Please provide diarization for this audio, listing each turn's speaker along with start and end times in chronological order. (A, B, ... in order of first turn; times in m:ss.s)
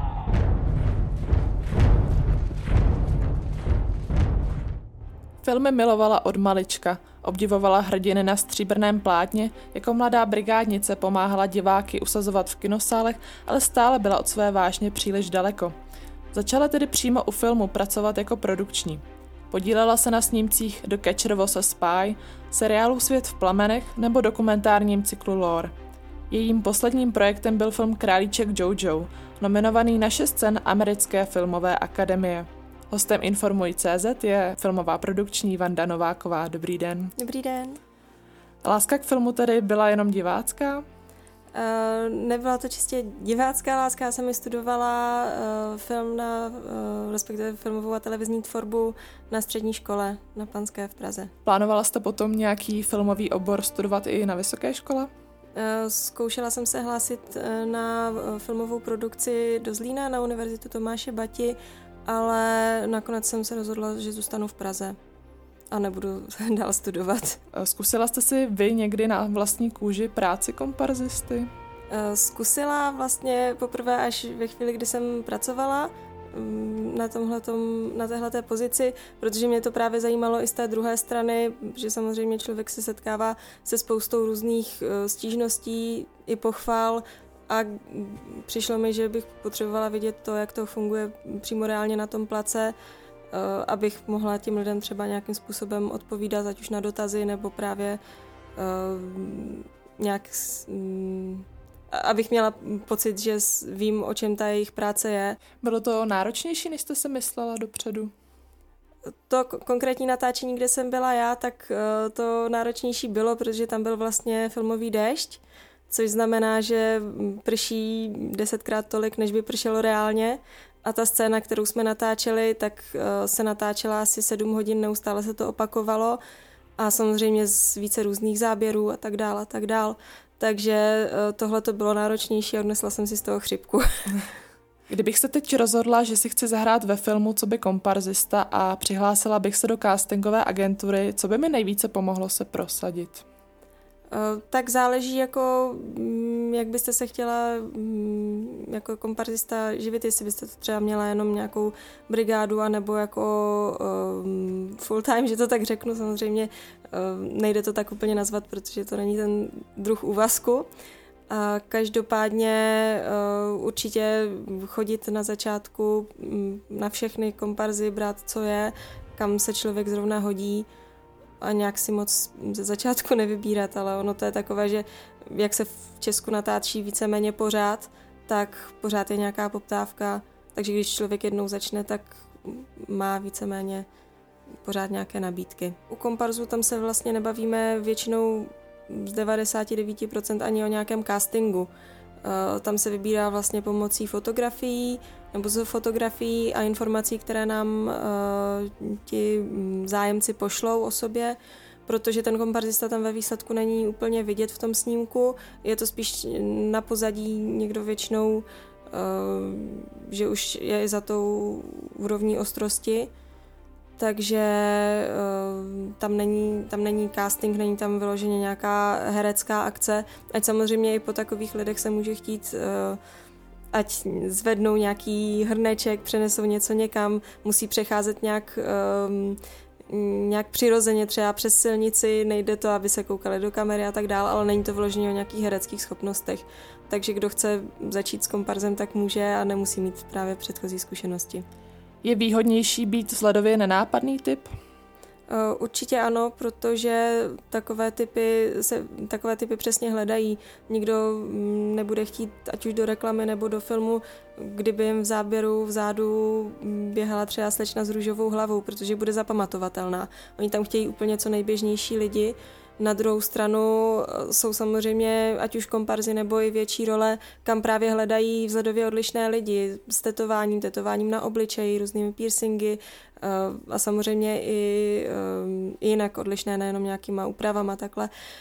0:05.4-0:15.8 A
0:16.3-0:25.8 A
0:26.3-0:37.1 A
0:37.2-0:37.8 B
0:38.6-0:40.8 A
0:41.5-0:51.3 B
0:51.4-0:55.1 A
0:55.6-1:05.0 B
1:05.7-1:07.4 B
1:07.5-1:11.5 A
1:11.9-1:32.7 B
1:33.3-1:38.0 B
1:38.6-1:45.4 B
1:45.6-1:48.1 A
1:49.3-2:06.2 B
2:06.8-2:13.9 B
2:14.9-2:23.2 A
2:24.1-2:40.7 B
2:41.3-2:50.7 B
2:51.4-3:03.9 B
3:04.6-3:11.7 B
3:12.2-3:33.1 B
3:34.0-3:43.0 B
3:43.7-4:01.4 B
4:02.0-4:04.5 A
4:05.3-4:38.1 B